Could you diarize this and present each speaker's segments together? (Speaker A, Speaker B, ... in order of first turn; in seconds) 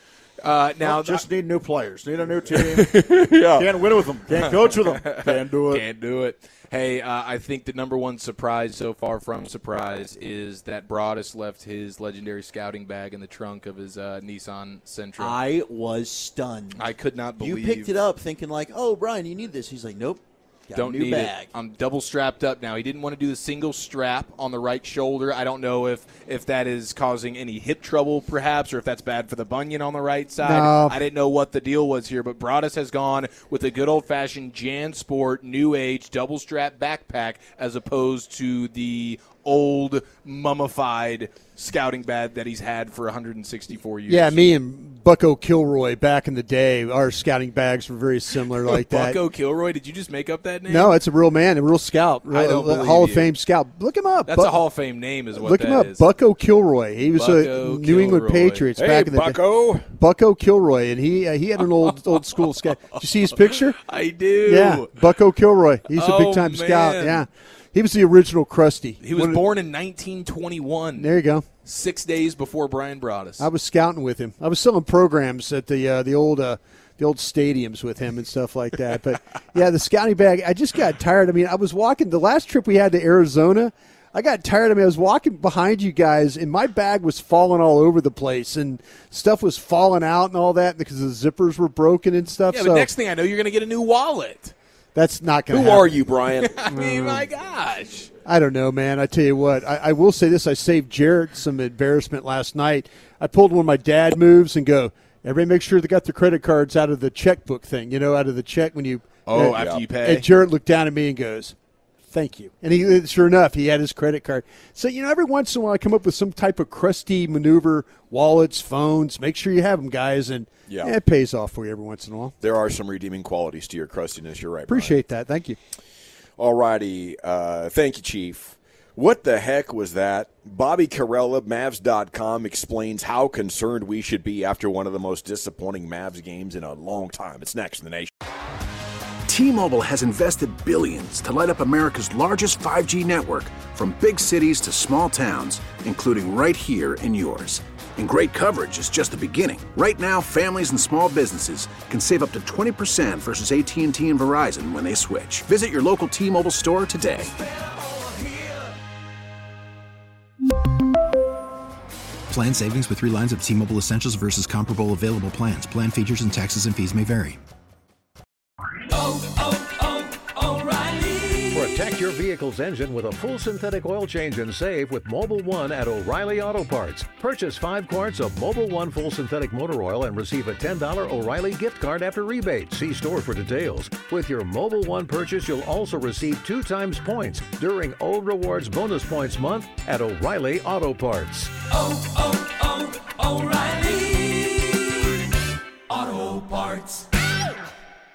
Speaker A: 0.4-1.3, 4.3-15.4, 16.7-18.1, 20.7-44.5, 48.6-51.0, 52.3-53.4, 54.2-56.1, 57.1-58.7, 61.9-62.2, 62.9-65.1, 65.9-67.2, 69.0-71.1, 71.7-73.5, 92.5-94.5, 96.3-98.1, 109.3-110.3
Speaker B: 0.8-2.9, 3.4-5.8
Speaker C: 2.5-4.5, 58.8-59.9, 95.5-96.5, 109.5-109.9, 120.7-120.9, 122.4-125.0, 126.4-138.1
Speaker D: 15.2-16.8, 17.4-21.5
Speaker E: 30.4-31.0, 44.1-49.2, 50.7-54.7, 55.3-59.4, 60.0-63.8, 64.4-69.4, 71.0-71.5, 73.4-92.9, 95.0-96.0, 96.7-97.3, 98.2-111.6, 112.1-122.3, 124.7-125.6
Speaker F: 139.3-157.3
Speaker G: 162.3-167.4
Speaker H: 171.5-191.6
Speaker I: 193.4-194.4, 195.9-197.0